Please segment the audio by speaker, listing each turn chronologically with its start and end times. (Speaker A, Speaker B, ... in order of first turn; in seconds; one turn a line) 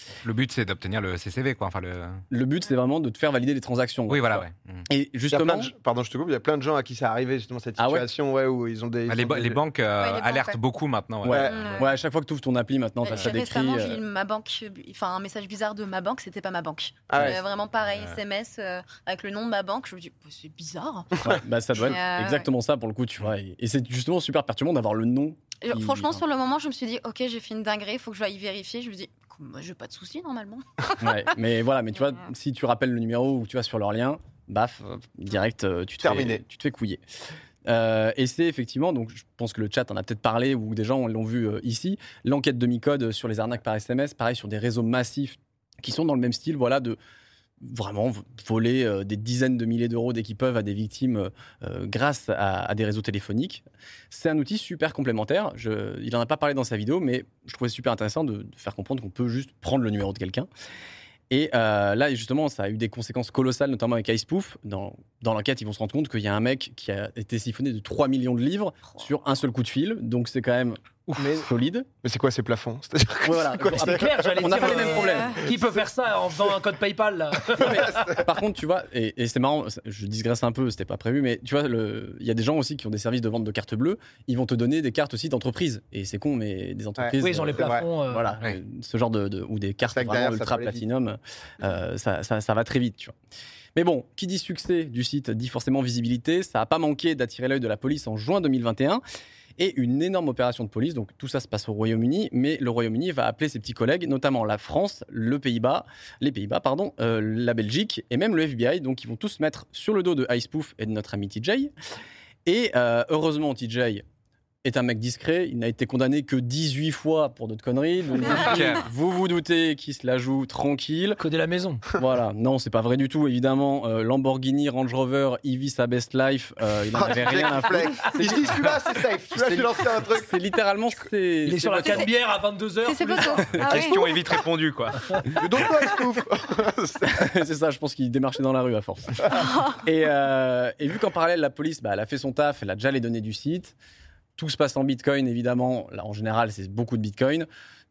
Speaker A: 0.2-2.2
Speaker B: 2.3-5.7
Speaker A: 4.1-4.8
Speaker C: 5.3-9.6
Speaker B: 7.8-8.1
Speaker A: 9.1-11.6
Speaker D: 9.9-10.6
Speaker B: 11.2-14.0
Speaker C: 11.3-11.6
Speaker D: 11.4-11.9
Speaker D: 13.0-22.5
Speaker C: 17.1-17.4
Speaker A: 17.2-18.2
Speaker B: 21.2-26.2
Speaker D: 25.6-31.2
Speaker B: 31.0-37.0
Speaker C: 36.0-36.4
Speaker B: 37.7-47.0
Speaker B: 47.6-60.5
Speaker B: 61.3-71.9
Speaker A: 71.1-71.3
Speaker C: 72.0-74.8
Speaker B: 73.2-75.4
Speaker E: 73.6-78.2
Speaker D: 74.9-75.5
Speaker B: 77.6-93.1
Speaker C: 87.0-87.9
Speaker E: 87.2-88.3
Speaker C: 89.8-90.8
Speaker B: 93.8-99.0
Speaker B: 99.6-111.7
Speaker B: 112.5-114.0
Speaker B: 114.6-121.2
Speaker A: 118.4-118.8
Speaker E: 121.2-121.8
Speaker B: 121.9-128.7
Speaker C: 126.9-130.3
Speaker B: 129.3-132.1
Speaker E: 131.4-133.6
Speaker D: 132.8-134.2
Speaker B: 133.5-133.8
Speaker A: 133.6-135.1
Speaker C: 135.3-137.2
Speaker B: 137.0-143.8
Speaker B: 144.4-147.4